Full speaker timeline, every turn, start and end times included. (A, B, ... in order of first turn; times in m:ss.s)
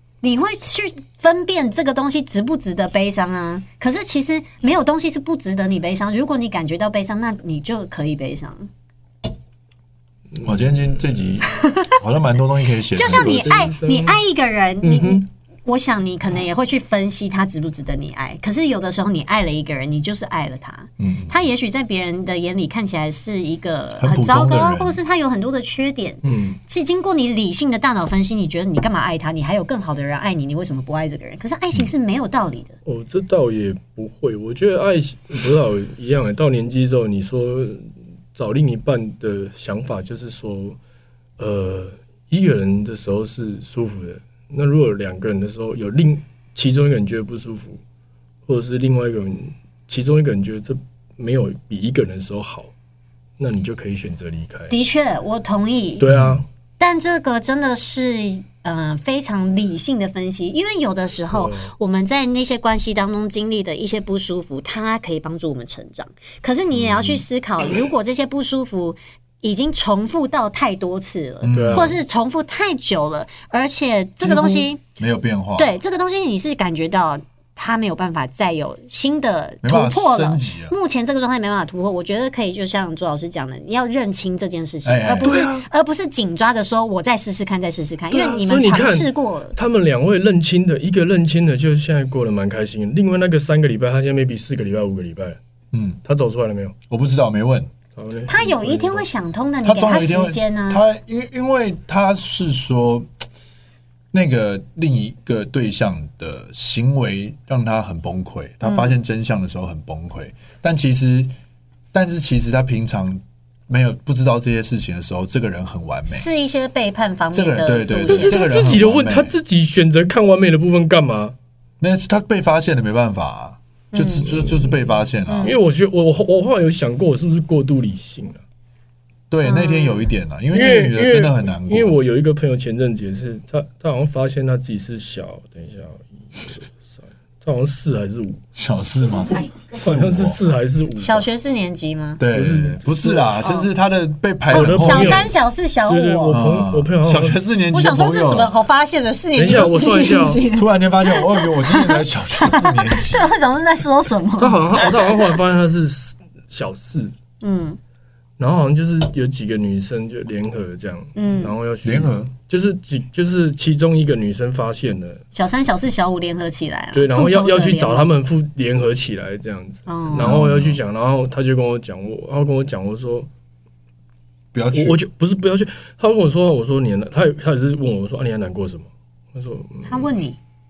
0:00.2-0:08.7 A
0:10.3-0:10.8 B
0:10.4-0:13.7 C
0:11.5-0:12.0 A
0:12.9-0:32.8 A
0:13.1-0:14.2 B
0:14.8-0:15.2 B
0:21.0-0:21.3 C
0:24.0-0:25.0 C
0:26.2-0:26.6 B
0:32.8-0:40.8 B
0:41.4-0:47.8 B
0:48.5-0:52.7 B
0:53.4-0:54.7 B
0:54.7-0:56.0 A
0:56.0-0:56.4 B
0:56.1-0:56.4 C
0:56.8-1:14.8 A
1:01.3-1:01.7 B
1:06.7-1:07.2 C
1:11.4-1:12.0 C
1:11.5-1:12.0 B
1:14.2-1:15.7 C
1:15.6-1:29.6 A
1:19.6-1:20.7 C
1:24.8-1:25.3 C
1:25.2-1:25.6 B
1:28.1-1:35.4 B
1:35.7-1:36.0 C
1:36.0-1:36.7 B
1:36.9-1:37.7 C
1:37.9-1:39.0 B
1:38.3-1:40.8 A
1:39.6-1:43.1 C
1:44.1-1:51.3 C
1:48.6-1:49.0 A
1:51.9-1:56.3 C
1:56.1-1:58.8 A
1:57.3-1:59.4 C
1:58.0-2:01.4 B
2:01.8-2:05.5 C
2:03.9-2:05.6 A
2:05.4-2:08.4 B
2:09.3-2:11.9 C
2:09.4-2:10.1 A
2:10.5-2:18.4 B
2:18.6-2:20.4 C
2:19.7-2:21.2 B
2:21.0-2:22.2 A
2:22.2-2:25.3 C
2:22.3-2:23.3 B
2:23.4-2:23.7 A
2:24.5-2:25.3 B
2:24.5-2:26.4 A
2:25.9-2:27.5 B
2:26.3-2:28.5 C
2:27.7-2:35.0 A
2:29.3-2:30.4 B
2:29.9-2:33.3 C
2:34.4-2:37.1 B
2:37.4-2:37.8 A
2:38.4-2:45.2 B
2:41.2-2:41.5 A
2:41.8-2:42.3 C
2:45.3-2:48.1 A
2:46.9-2:53.3 B
2:49.9-2:50.3 A
2:50.2-2:50.8 C
2:54.5-2:55.0 C
2:54.7-3:00.1 B
2:59.9-3:00.4 A